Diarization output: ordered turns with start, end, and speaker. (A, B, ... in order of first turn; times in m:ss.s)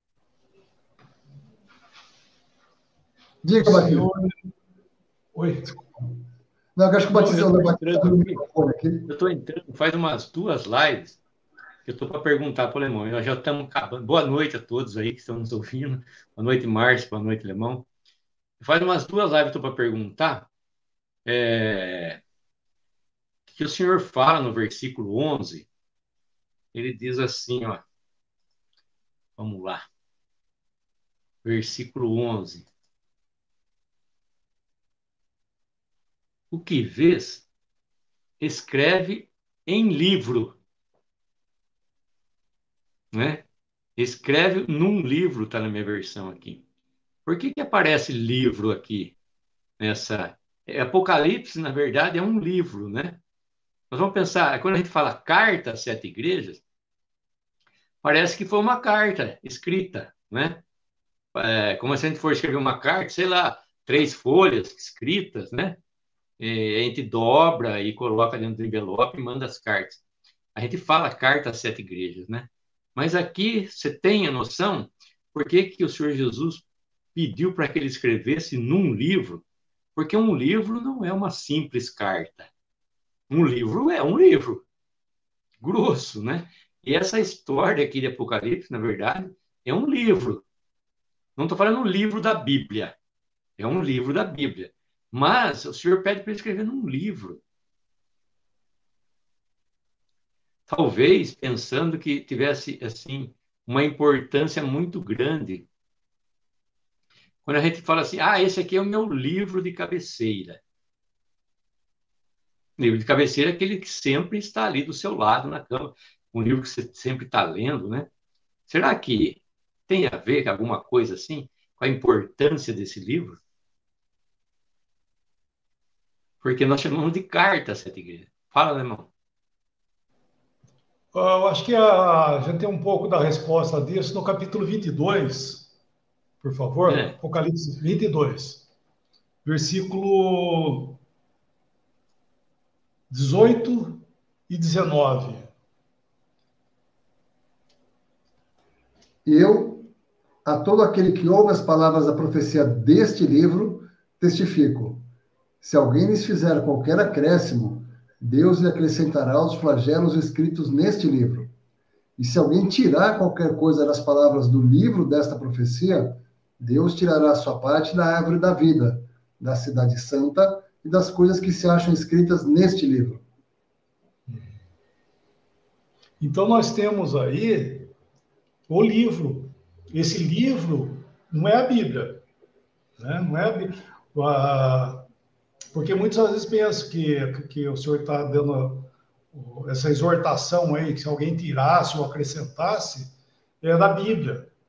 0:03.4-0:04.1 A
0:03.6-0:04.3 B
0:05.3-0:05.7 B
0:06.8-0:09.1 A
0:07.1-0:08.4 C
0:09.1-0:11.2 C
0:11.8-0:17.8 C
0:18.6-0:20.5 C
0:21.2-0:22.2 C
0:23.5-0:25.7 C
0:26.7-0:27.8 C
0:29.4-0:29.8 C
0:31.4-0:32.7 C
0:36.5-0:37.4 C
0:38.4-0:40.6 C
0:43.1-0:43.4 C
0:44.0-0:46.6 C
0:47.2-0:49.1 C
0:49.8-0:53.2 C
0:53.9-0:56.6 C
0:58.0-1:00.6 C
1:01.3-1:05.8 C
1:06.4-1:10.0 C
1:10.6-1:19.4 C
1:20.0-1:22.5 C
1:23.3-1:24.6 C
1:25.6-1:30.4 C
1:31.4-1:32.9 C
1:33.6-1:37.4 C
1:40.7-1:45.6 C
1:47.4-1:50.6 C
1:52.8-1:58.1 C
1:58.7-2:03.4 C
2:06.4-2:09.1 C
2:11.1-2:15.7 B
2:16.4-2:18.6 B
2:16.9-2:17.2 C
2:19.4-2:21.0 B
2:23.1-2:25.5 B
2:29.2-2:29.9 A
2:30.4-2:35.0 A
2:35.6-2:41.5 A
2:42.2-2:53.2 A
2:56.2-2:57.9 B
2:58.7-3:02.2 B
3:03.0-3:05.0 B
3:05.7-3:14.5 B